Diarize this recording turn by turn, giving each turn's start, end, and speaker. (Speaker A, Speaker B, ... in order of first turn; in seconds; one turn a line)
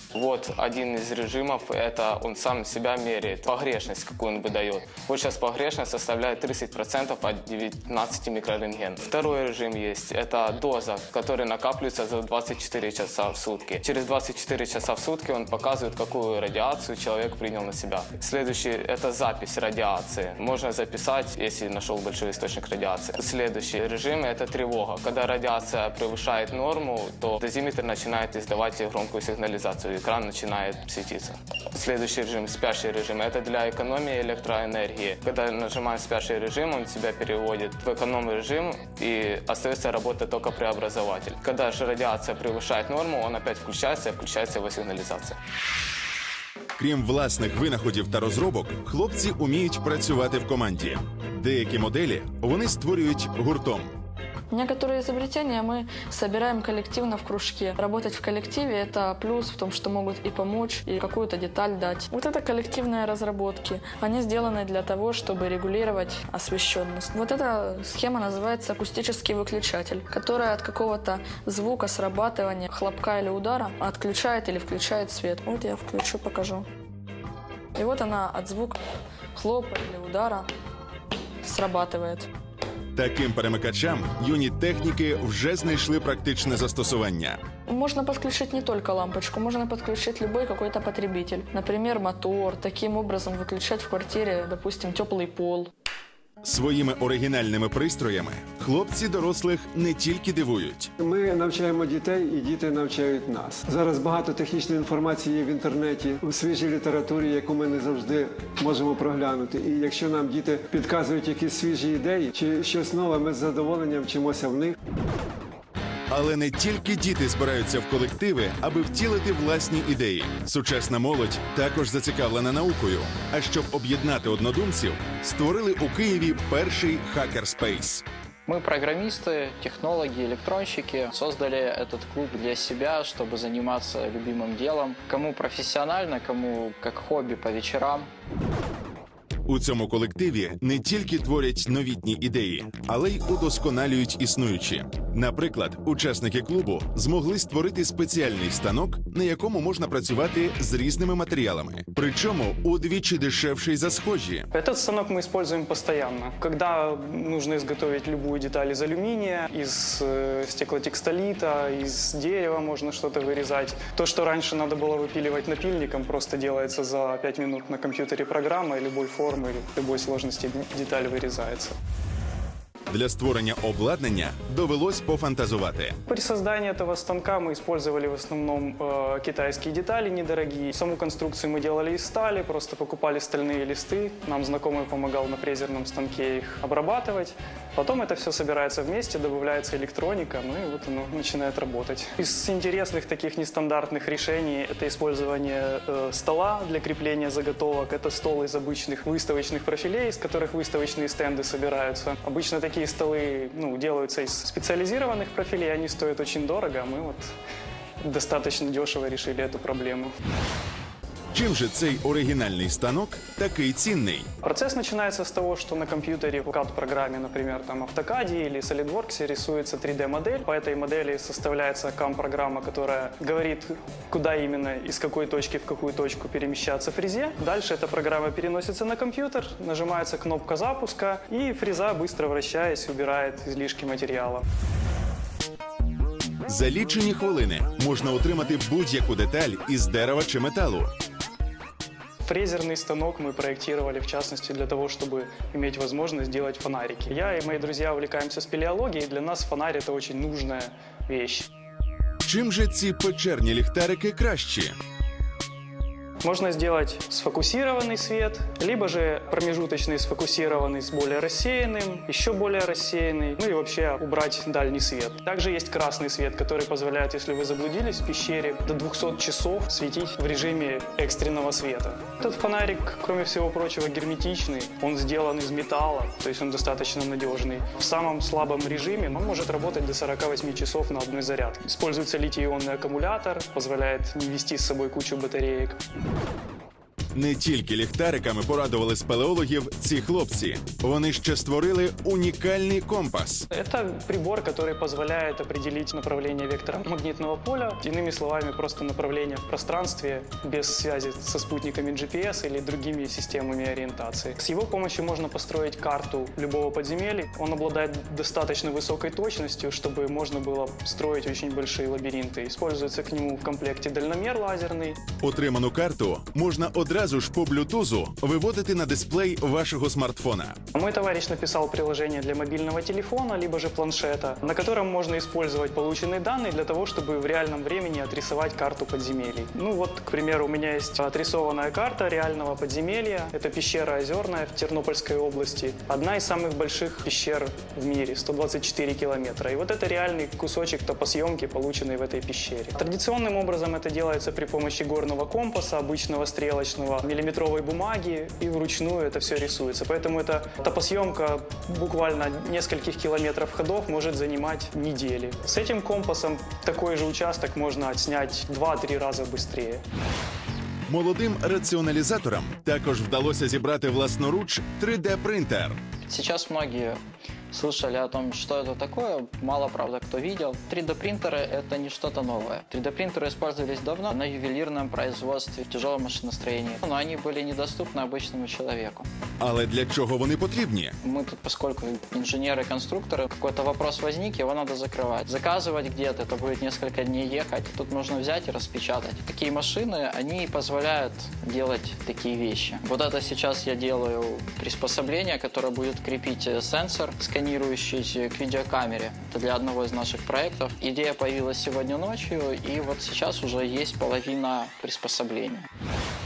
Speaker A: 0.1-45.4
Speaker B: 46.8-53.9
Speaker C: 54.5-76.7
Speaker C: 77.8-78.8
Speaker C: 79.3-80.5
Speaker C: 81.4-82.3
Speaker B: 82.9-87.4
Speaker C: 87.7-95.7
Speaker B: 96.4-100.9
Speaker D: 101.0-114.8
Speaker B: 116.1-128.0
Speaker E: 128.5-138.1
Speaker B: 139.5-154.5
Speaker F: 154.5-171.7
Speaker B: 172.9-175.9
Speaker F: 176.1-207.3
Speaker F: 208.0-210.1
Speaker B: 211.3-214.3
Speaker F: 214.4-234.4
Speaker B: 236.5-240.9
Speaker F: 242.2-251.5
Speaker B: 252.2-254.8
Speaker F: 256.2-285.8
Speaker B: 287.1-293.5
Speaker F: 293.5-315.0
Speaker B: 315.2-320.6
Speaker F: 320.7-359.8
Speaker B: 360.9-365.8
Speaker E: 366.1-367.0
Speaker E: 367.5-379.0
Speaker B: 379.4-380.9
Speaker E: 381.1-405.6